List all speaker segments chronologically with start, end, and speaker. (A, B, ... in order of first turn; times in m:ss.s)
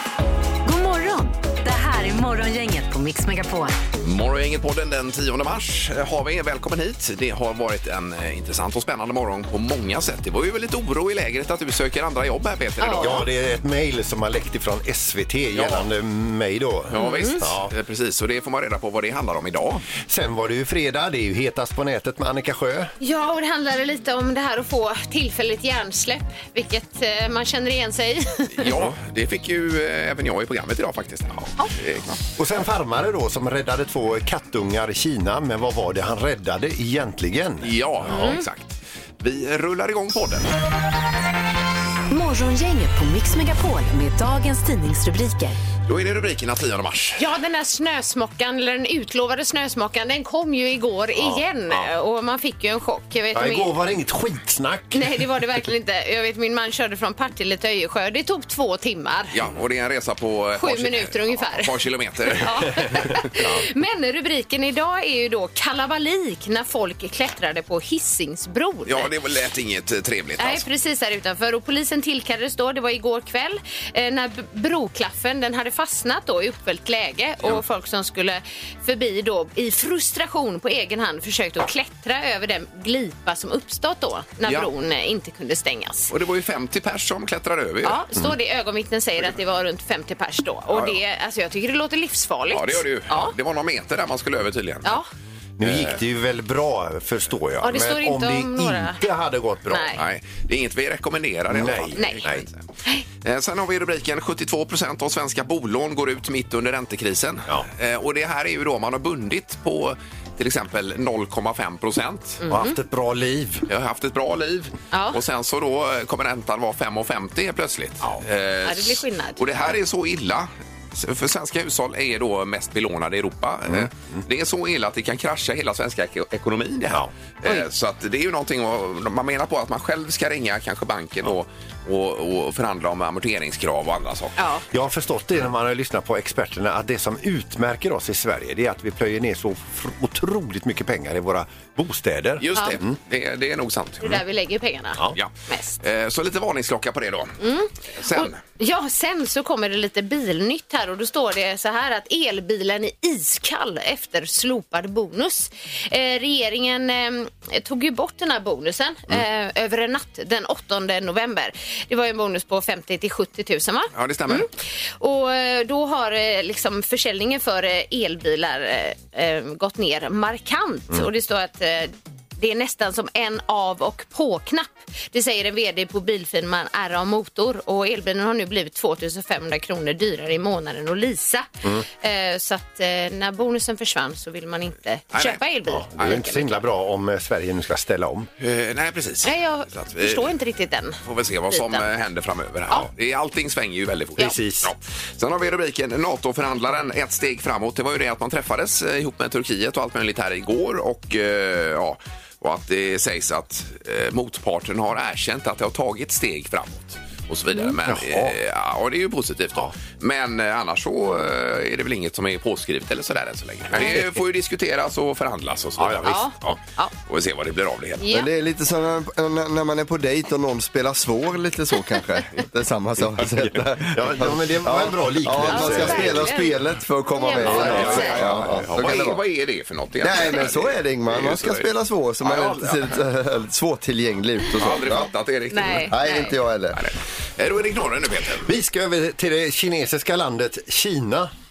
0:00.6-0:03.8 A
0:04.0-0:13.2 B
0:12.8-0:13.1 C
0:13.0-0:17.7 D
0:15.5-0:15.9 B
0:16.9-0:19.9 B
0:17.0-0:17.4 C
0:20.0-0:22.9 D
0:23.0-0:28.6 C
0:28.6-0:32.2 B
0:32.4-0:38.3 D
0:37.6-0:40.5 B
0:38.1-0:38.4 C
0:42.1-0:45.6 A
0:45.8-0:47.2 B
0:47.2-0:53.7 C
0:51.2-0:51.9 D
0:53.3-0:55.2 D
0:54.9-0:59.4 C
0:59.3-1:02.6 B
1:00.6-1:01.7 C
1:02.3-1:09.1 C
1:03.4-1:03.6 D
1:08.8-1:10.6 B
1:10.4-1:26.1 C
1:26.1-1:28.0 B
1:27.8-1:33.3 C
1:30.7-1:31.0 B
1:32.5-1:35.0 B
1:35.6-1:39.9 D
1:35.6-1:36.0 B
1:37.6-1:39.0 C
1:39.7-1:40.0 C
1:40.0-1:42.6 B
1:41.5-1:42.4 D
1:42.0-1:42.2 C
1:43.2-1:52.4 B
1:52.4-1:52.8 C
1:52.4-1:53.7 D
1:53.7-2:14.4 B
1:54.9-1:55.2 C
1:58.6-1:59.4 C
2:03.7-2:04.2 D
2:14.4-2:14.6 C
2:14.7-2:22.9 D
2:22.4-2:24.2 B
2:24.0-2:25.8 C
2:25.1-2:27.4 B
2:27.4-3:06.5 C
2:28.0-2:28.4 B
2:43.9-2:44.5 B
3:05.1-3:05.4 B
3:05.7-3:08.3 D
3:08.4-3:10.3 B
3:09.2-3:11.0 C
3:11.0-3:38.1 B
3:11.5-3:11.9 C
3:14.2-3:14.7 D
3:27.8-3:28.4 D
3:35.8-3:36.6 D
3:36.0-3:36.9 C
3:38.0-3:38.3 C
3:38.1-3:49.2 E
3:43.8-3:46.3 D
3:45.5-3:46.6 C
3:47.1-3:48.2 C
3:47.4-3:53.0 B
3:47.5-3:48.7 D
3:50.0-3:55.1 E
3:54.6-3:55.9 B
3:55.5-3:56.3 C
3:55.9-3:56.8 E
3:56.8-3:58.5 B
3:58.4-4:01.3 D